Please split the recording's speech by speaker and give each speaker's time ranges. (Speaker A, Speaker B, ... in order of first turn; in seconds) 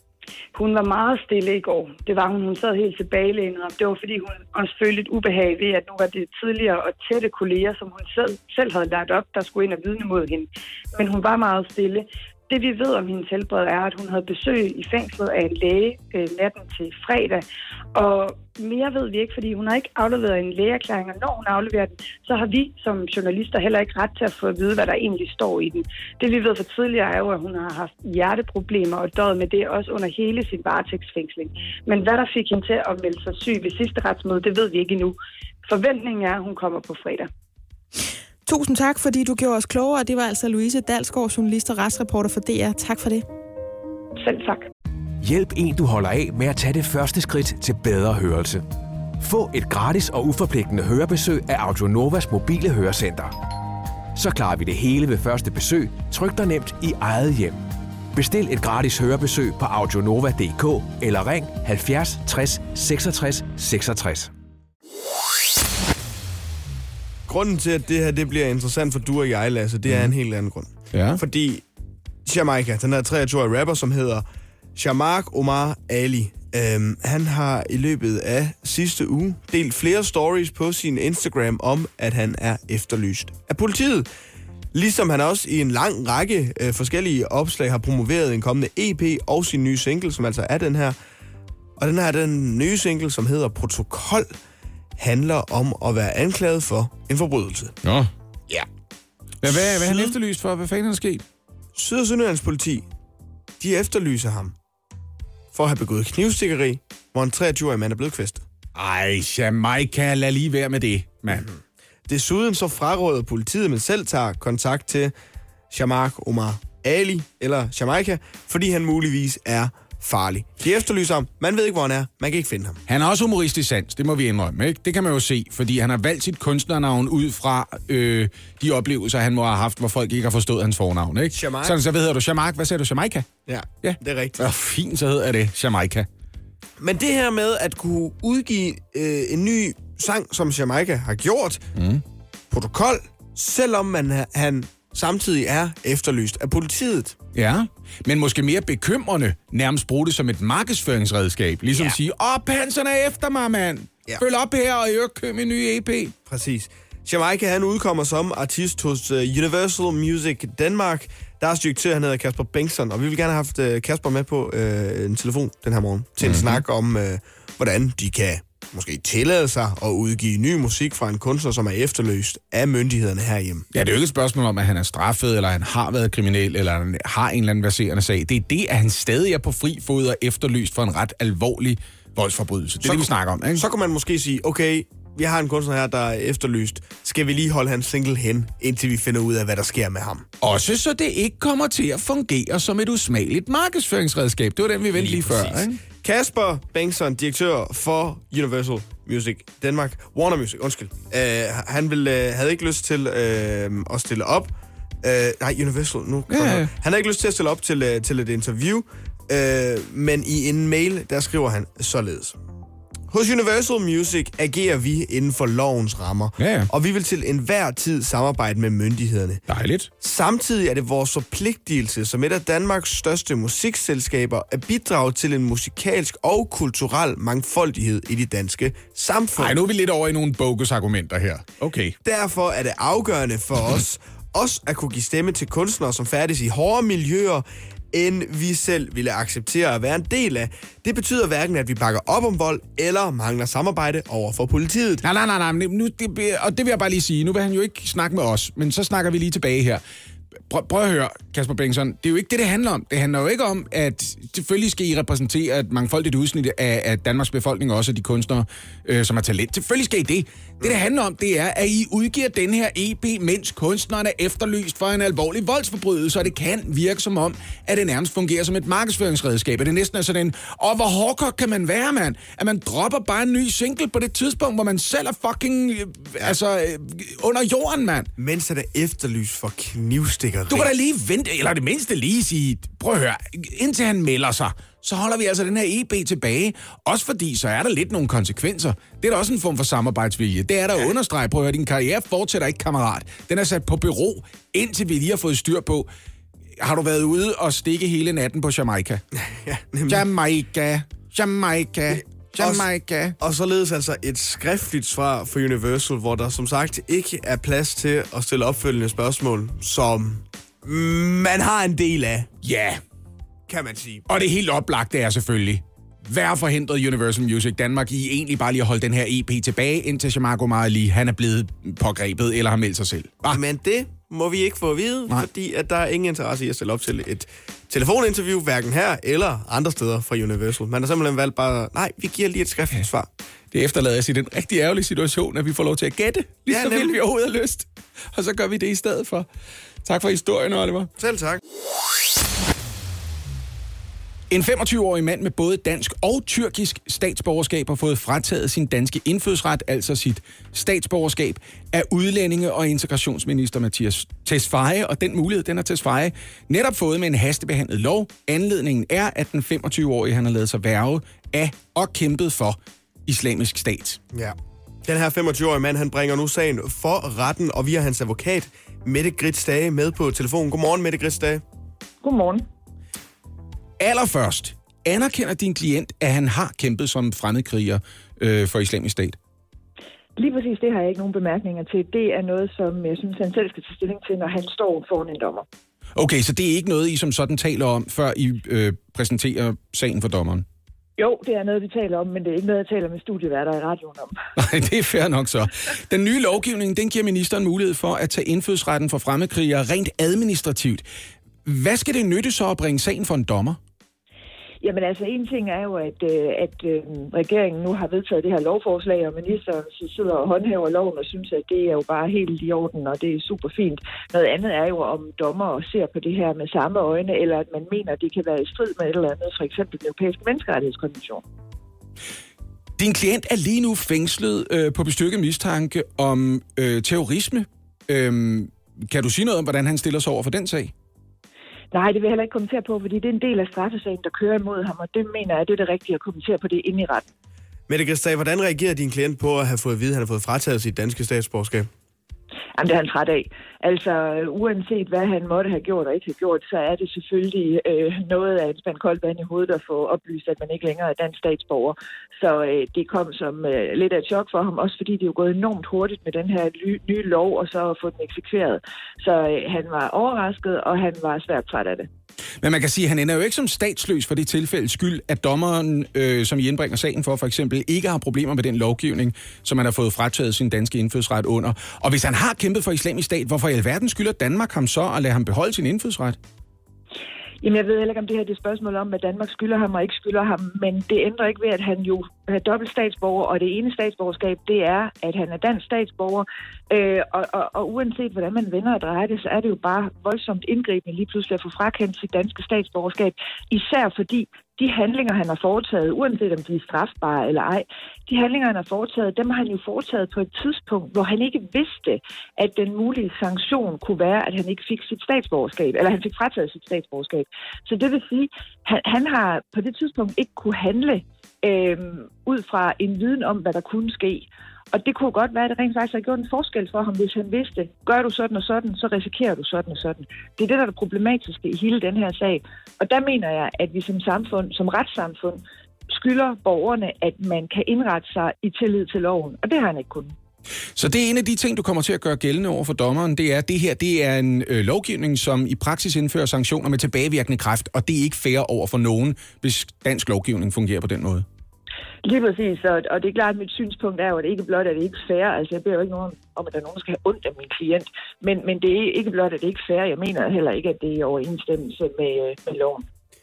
Speaker A: 0.5-37.3, 44.2-44.7
Speaker B: 38.5-43.2
Speaker C: 45.2-48.6, 49.2-53.3, 54.1-57.6, 58.1-64.3
Speaker D: 67.3-71.6, 72.2-74.2, 74.8-84.1, 84.7-91.0, 91.8-94.3, 95.0-97.7, 99.4-100.1, 101.8-102.9, 103.6-104.5, 105.5-108.4, 111.3-111.6, 112.1-115.1, 115.7-122.8, 131.3-131.8, 133.5-134.4, 136.8-141.6, 142.5-147.1, 156.3-173.6, 182.8-190.2, 194.9-212.4, 213.1-219.4, 220.0-229.6, 232.0-245.0, 278.2-280.7, 299.2-300.0, 301.9-302.6, 303.2-312.3, 313.5-314.1, 323.3-333.1, 336.5-337.0, 341.0-341.4, 364.1-371.4, 437.7-441.7
Speaker E: 69.9-70.1, 70.9-71.2, 97.8-98.6, 99.4-101.2, 108.7-111.5, 122.9-133.3, 133.8-136.1, 141.8-142.0, 147.3-156.1, 166.2-166.6, 173.7-183.6, 190.4-195.8, 206.3-206.7, 216.4-216.7, 219.5-219.9, 229.4-231.9, 245.0-249.8, 250.5-278.1, 280.5-295.9, 296.6-299.0, 299.9-303.1, 312.4-312.8, 314.1-323.4, 333.5-339.3, 339.8-340.9, 344.3-364.0, 373.8-379.2, 385.9-390.4, 394.4-400.8, 401.4-403.6, 422.8-430.7, 462.4-476.2, 530.8-541.2
Speaker F: 372.0-372.5, 380.2-385.4, 391.0-394.1, 404.6-421.2, 431.7-437.1, 442.6-461.9, 477.4-530.1, 542.0-552.9